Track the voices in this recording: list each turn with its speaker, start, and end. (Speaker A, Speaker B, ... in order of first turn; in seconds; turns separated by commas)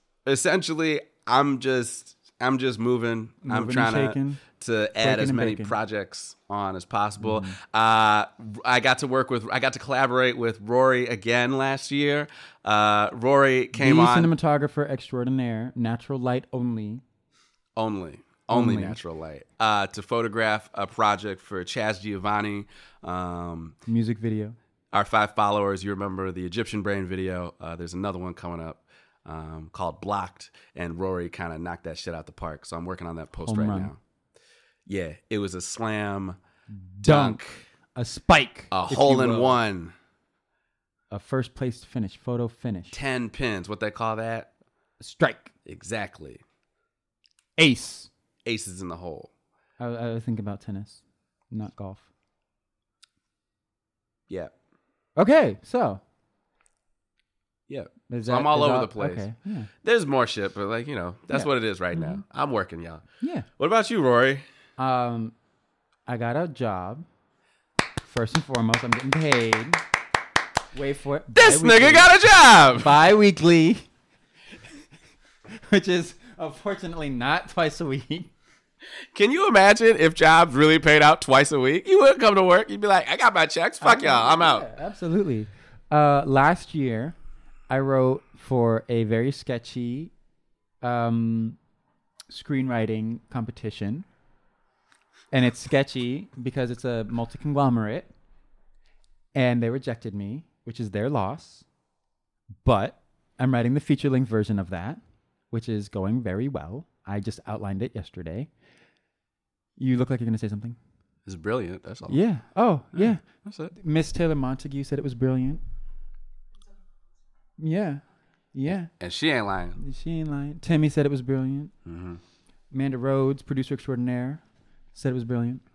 Speaker A: 0.2-14.3, Speaker B: 3.4-4.4, Speaker B: 5.0-5.7, Speaker B: 7.2-7.6, Speaker B: 13.7-17.0, Speaker A: 17.8-23.8, Speaker B: 18.5-19.0, Speaker B: 23.9-24.6, Speaker A: 24.9-34.0, Speaker B: 33.5-33.9, Speaker A: 34.9-36.4, Speaker B: 36.9-37.4, Speaker A: 37.0-37.6, Speaker B: 38.0-39.6, Speaker A: 38.7-39.9, Speaker B: 41.1-43.0, Speaker A: 42.9-44.5, Speaker B: 45.0-45.5, Speaker A: 45.6-46.4, Speaker B: 47.6-48.1, Speaker A: 48.4-49.3, Speaker B: 49.8-52.1, Speaker B: 55.2-56.0, Speaker A: 57.7-59.3, Speaker B: 58.1-59.7, Speaker A: 59.8-63.0, Speaker B: 61.3-62.2, Speaker B: 63.2-63.5, Speaker A: 63.6-64.4, Speaker B: 64.8-65.3, Speaker B: 66.1-67.0, Speaker B: 68.0-69.8, Speaker B: 70.7-72.1, Speaker A: 71.3-73.0, Speaker B: 72.8-73.9, Speaker B: 75.7-78.3, Speaker A: 79.1-84.7, Speaker B: 83.8-87.1, Speaker B: 87.7-90.1, Speaker B: 90.8-91.6, Speaker B: 92.3-94.0, Speaker B: 95.3-98.1, Speaker B: 99.3-101.6, Speaker B: 102.6-105.0, Speaker B: 105.5-108.5, Speaker B: 109.8-110.8, Speaker A: 111.2-112.2, Speaker B: 112.1-115.6, Speaker A: 112.9-113.7, Speaker B: 117.6-118.0, Speaker B: 118.5-118.9, Speaker A: 119.0-119.8, Speaker B: 119.8-121.7, Speaker A: 121.8-122.2, Speaker B: 122.7-124.4, Speaker B: 124.9-125.6